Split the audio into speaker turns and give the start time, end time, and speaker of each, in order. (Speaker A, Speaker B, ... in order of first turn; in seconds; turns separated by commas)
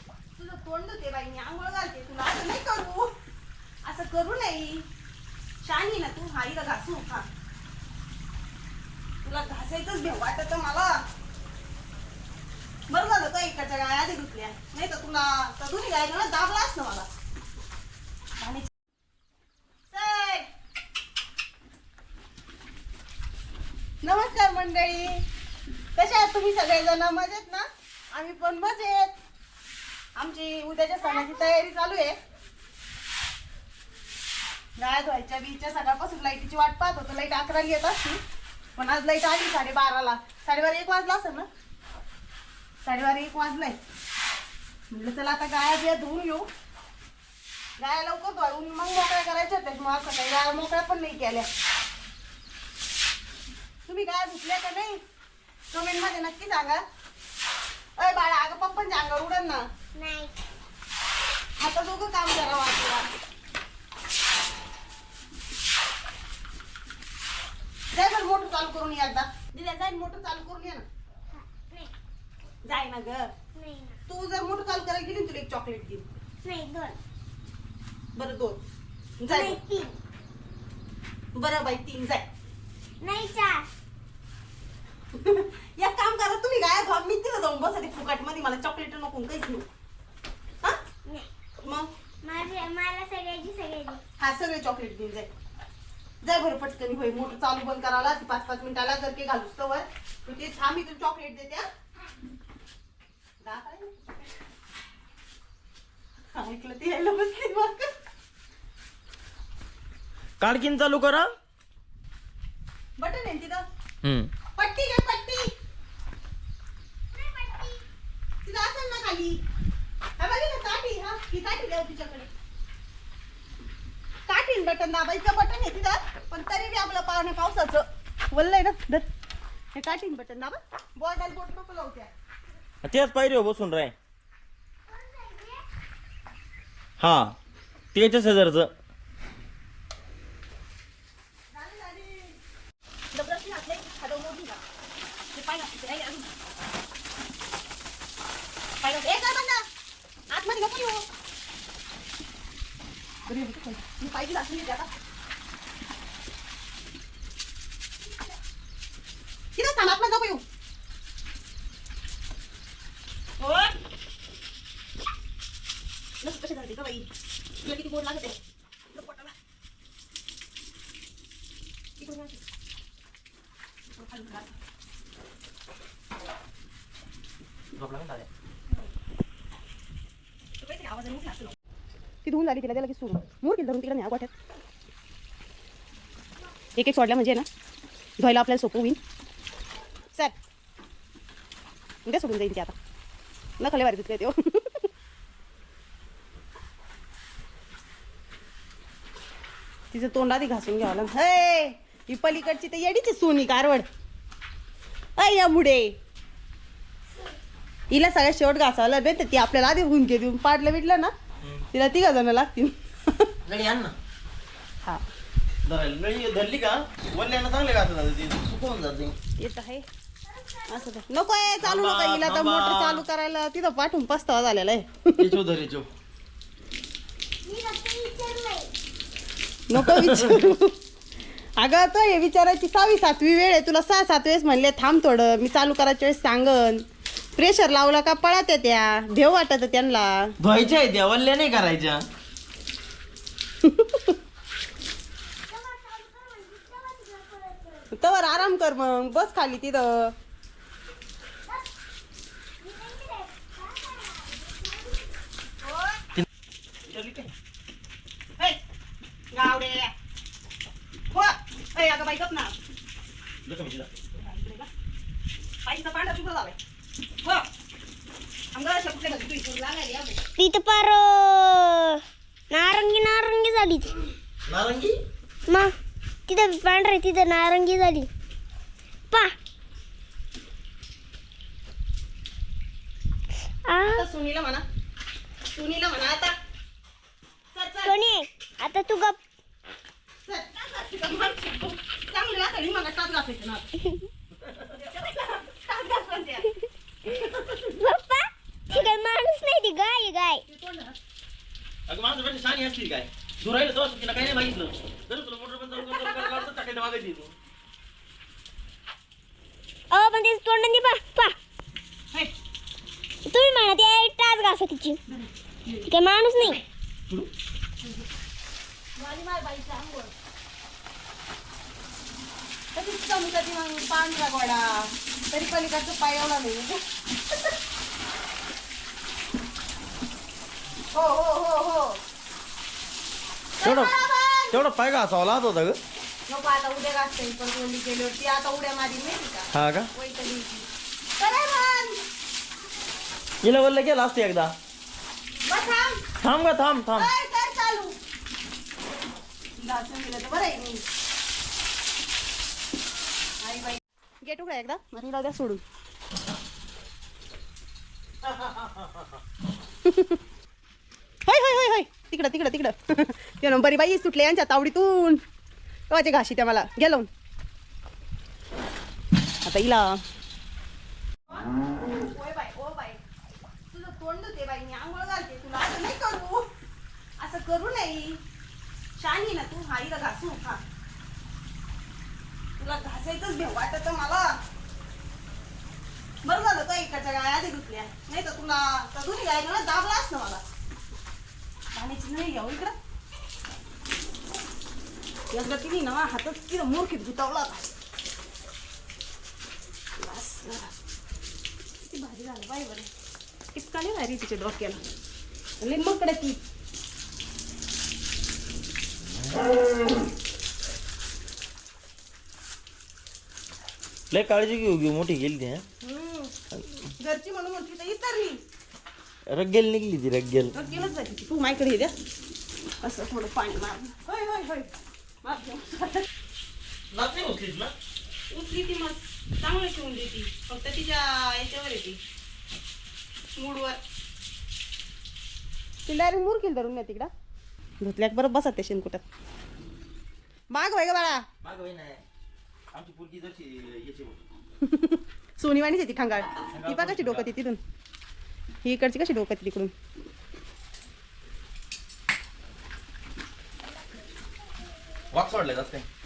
Speaker A: 0.4-3.1, Speaker A: 3.8-4.8, Speaker A: 5.6-7.2, Speaker A: 9.2-11.0, Speaker A: 12.9-17.1, Speaker A: 18.4-18.7, Speaker A: 19.9-20.5, Speaker A: 24.0-25.2, Speaker A: 25.9-29.1, Speaker A: 30.1-32.1, Speaker A: 34.8-38.2, Speaker A: 38.8-41.5, Speaker A: 42.8-43.8, Speaker A: 44.9-46.5, Speaker A: 47.8-51.5, Speaker A: 53.9-55.0, Speaker A: 55.7-56.8, Speaker A: 58.0-59.6, Speaker B: 59.9-60.4, Speaker A: 61.6-63.1, Speaker A: 67.9-70.8, Speaker B: 71.3-71.9, Speaker A: 72.6-73.3, Speaker B: 73.5-74.0, Speaker A: 74.1-76.0, Speaker B: 76.4-77.0, Speaker A: 78.1-78.6, Speaker A: 79.2-79.6, Speaker B: 79.3-80.0, Speaker A: 81.3-82.2, Speaker B: 83.0-83.7, Speaker A: 85.1-89.7, Speaker A: 91.6-91.9, Speaker B: 92.2-94.0, Speaker A: 94.2-95.3, Speaker A: 96.2-101.6, Speaker A: 103.4-104.0, Speaker A: 106.3-107.9, Speaker C: 110.4-111.3, Speaker A: 113.0-113.6, Speaker C: 114.0-114.3, Speaker A: 114.6-115.5, Speaker B: 117.1-117.8, Speaker A: 118.4-119.4, Speaker A: 120.2-122.3, Speaker A: 124.3-129.1, Speaker A: 129.7-132.1, Speaker C: 132.8-133.9, Speaker B: 134.9-135.6, Speaker C: 137.0-137.3, Speaker C: 137.9-138.7, Speaker A: 141.5-142.4, Speaker A: 143.1-144.6, Speaker A: 145.3-146.3, Speaker A: 148.8-149.6, Speaker A: 150.3-151.0, Speaker A: 153.3-154.9, Speaker A: 159.6-160.4, Speaker A: 163.4-163.7, Speaker A: 166.2-167.1, Speaker A: 167.6-168.4, Speaker A: 168.9-169.3, Speaker A: 172.0-172.4, Speaker A: 174.0-174.6, Speaker C: 177.7-178.3, Speaker A: 180.6-181.5, Speaker A: 182.2-184.3, Speaker A: 186.8-187.5, Speaker A: 188.2-189.0, Speaker A: 192.0-192.8, Speaker A: 193.6-194.9, Speaker A: 199.9-203.9, Speaker A: 205.2-205.9, Speaker A: 207.9-211.1, Speaker A: 211.7-213.3, Speaker C: 213.4-213.9, Speaker C: 215.6-219.1, Speaker A: 219.4-219.8, Speaker B: 220.3-220.9, Speaker A: 220.7-225.3, Speaker C: 221.6-223.0, Speaker C: 225.2-225.9, Speaker B: 227.4-228.7, Speaker A: 229.7-230.8, Speaker C: 229.8-230.4, Speaker A: 231.6-236.8, Speaker A: 237.4-240.3, Speaker C: 240.4-242.0, Speaker A: 243.6-244.1, Speaker B: 245.5-247.9, Speaker A: 247.9-250.1, Speaker B: 252.6-255.0, Speaker A: 255.6-256.0, Speaker C: 256.9-257.3, Speaker A: 259.3-259.9, Speaker A: 261.1-262.5, Speaker C: 263.4-263.9, Speaker A: 264.1-264.7, Speaker A: 265.6-266.6, Speaker A: 268.5-270.2, Speaker B: 270.4-274.0, Speaker C: 274.4-275.0, Speaker B: 275.5-275.7, Speaker B: 276.3-278.1, Speaker B: 283.7-284.1, Speaker A: 283.8-284.6, Speaker A: 285.5-286.3, Speaker A: 287.5-288.0, Speaker B: 287.8-289.2, Speaker A: 290.3-293.8, Speaker C: 294.4-294.7, Speaker A: 294.7-296.5, Speaker A: 297.0-297.8, Speaker B: 297.8-300.4, Speaker C: 298.7-298.9, Speaker A: 300.5-300.9, Speaker C: 301.9-307.3, Speaker B: 309.9-311.4, Speaker B: 313.3-315.0, Speaker A: 315.1-316.6, Speaker B: 315.9-316.6, Speaker A: 318.9-320.1, Speaker A: 322.7-326.8, Speaker A: 330.9-332.0, Speaker A: 333.6-334.6, Speaker C: 333.6-333.9, Speaker C: 334.5-335.8, Speaker A: 336.3-342.0, Speaker C: 339.5-339.9, Speaker C: 343.4-344.5, Speaker A: 345.4-346.0, Speaker C: 346.2-347.1, Speaker A: 346.9-347.9, Speaker A: 349.6-350.8, Speaker A: 353.4-355.6, Speaker C: 358.2-358.8, Speaker A: 359.8-360.2, Speaker A: 361.3-365.2, Speaker A: 365.9-367.1, Speaker A: 369.4-370.0, Speaker A: 371.3-373.0, Speaker A: 373.7-376.5, Speaker A: 377.2-378.2, Speaker A: 379.0-380.6, Speaker A: 382.6-384.4, Speaker A: 386.2-390.4, Speaker A: 391.7-392.7, Speaker A: 395.3-397.7, Speaker A: 400.0-400.7, Speaker A: 401.8-402.9, Speaker A: 403.5-404.8, Speaker A: 405.6-406.4, Speaker C: 414.1-415.6, Speaker A: 415.8-416.3, Speaker A: 416.9-418.4, Speaker C: 419.3-420.5, Speaker A: 420.5-421.9, Speaker A: 422.8-426.1, Speaker C: 426.9-427.7, Speaker A: 428.3-432.0, Speaker A: 433.4-433.8, Speaker A: 435.9-437.1, Speaker A: 437.8-439.0, Speaker A: 440.5-441.2, Speaker C: 441.4-442.0, Speaker C: 442.7-444.2, Speaker A: 444.6-447.6, Speaker C: 446.5-447.3, Speaker A: 448.6-449.7, Speaker C: 455.1-455.8